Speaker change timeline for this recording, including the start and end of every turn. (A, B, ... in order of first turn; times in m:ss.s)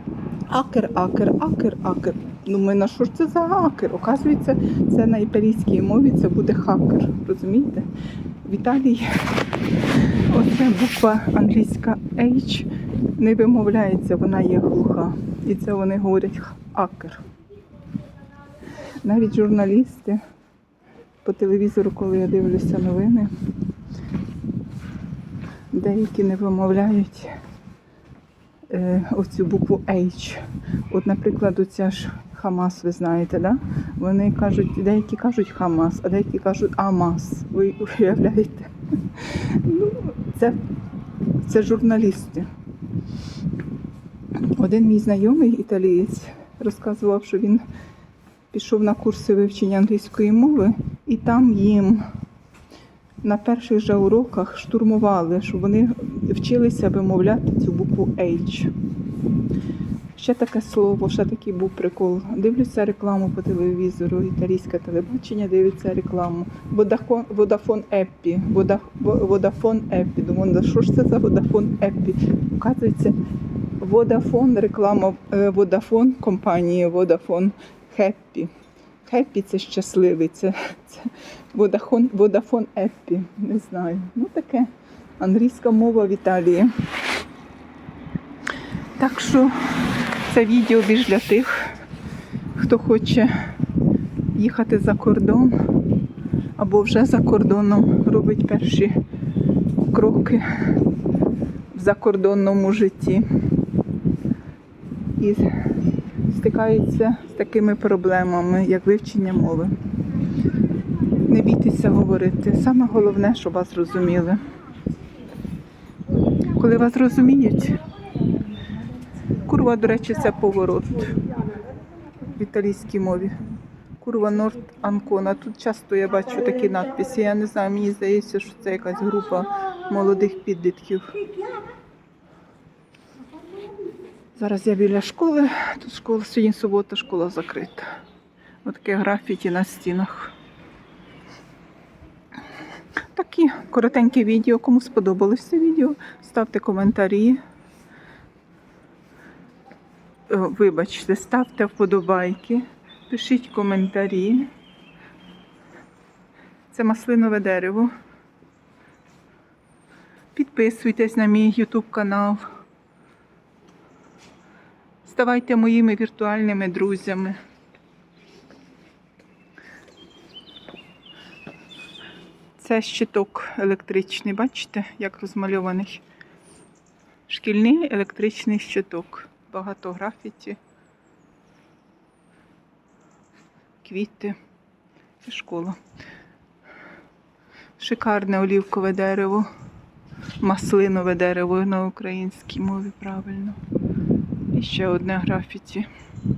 0:00.5-0:07.8 A
0:08.4-0:09.1 A
0:10.3-0:17.2 A
0:19.0-0:20.2 A
0:21.2-0:23.3 A
0:25.7-0:27.3 A
0:28.7-0:40.6 A
0:41.4-0:42.5 A
0:44.4-0:47.6 A
0:48.5-0:52.0 A
0:53.2-0:58.7 A
1:00.2-1:13.2 A
1:13.8-1:18.5 A
1:19.0-1:26.7 A
1:29.0-1:31.7 A
1:32.6-1:33.3 A
1:34.3-1:35.6 A
1:36.6-1:38.9 A
1:39.9-1:40.4 A
1:41.7-1:43.2 A
1:45.2-1:45.4 A
1:46.3-1:49.7 A
1:51.2-1:54.4 A
1:56.5-1:57.8 A
1:59.4-2:01.3 A
2:02.2-2:03.4 A
2:04.0-2:11.2 A
2:14.3-2:17.9 A
2:18.6-2:20.3 A
2:23.1-2:27.4 A
2:30.3-2:34.5 A
2:36.7-2:37.9 A
2:40.3-2:42.4 A
2:45.0-2:47.4 A
2:52.6-2:56.0 A
2:57.3-3:00.6 A
3:03.8-3:04.4 A
3:05.2-3:05.8 A
3:07.8-3:09.4 A
3:10.4-3:13.6 A
3:14.5-3:15.9 A